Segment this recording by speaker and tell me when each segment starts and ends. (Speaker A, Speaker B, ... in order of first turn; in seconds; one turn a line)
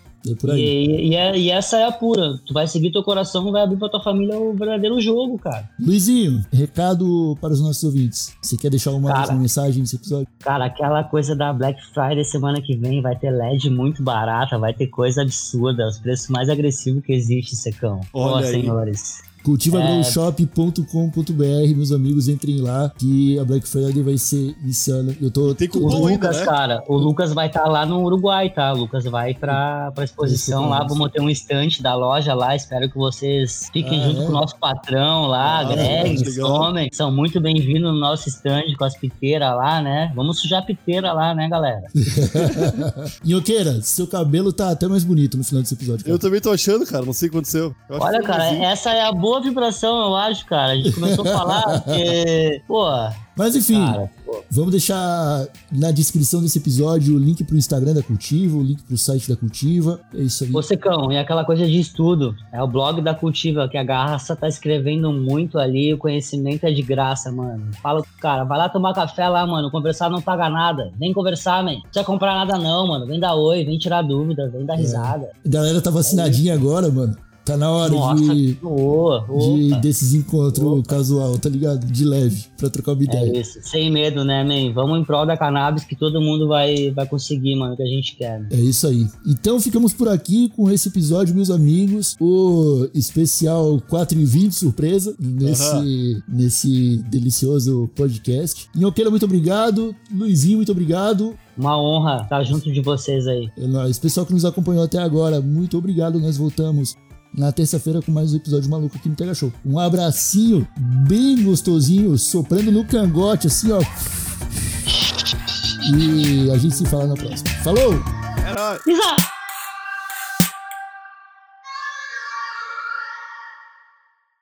Speaker A: 0.2-0.7
Speaker B: 0.5-5.7
Speaker A: 5.8-10.3
Speaker B: 9.0-9.4
Speaker B: 10.4-20.2
Speaker C: 18.1-18.8
Speaker A: 19.4-26.2
Speaker C: 25.4-26.5
Speaker B: 25.8-41.9
Speaker A: 30.2-31.0
Speaker A: 33.8-34.4
Speaker C: 35.4-36.7
Speaker A: 35.6-36.3
Speaker A: 42.0-46.2
Speaker C: 46.0-48.7
Speaker B: 48.0-53.2
Speaker A: 50.8-52.0
Speaker A: 53.4-60.6
Speaker B: 53.7-54.4
Speaker B: 60.5-75.3
Speaker A: 74.8-78.6
Speaker B: 76.0-76.6
Speaker B: 77.8-79.9
Speaker A: 79.3-83.4
Speaker B: 80.5-80.9
Speaker B: 83.0-88.5
Speaker A: 88.5-101.4
Speaker C: 95.4-95.9
Speaker B: 101.6-103.5
Speaker A: 103.6-113.9
Speaker A: 115.8-118.0
Speaker C: 118.4-118.8
Speaker B: 118.8-119.2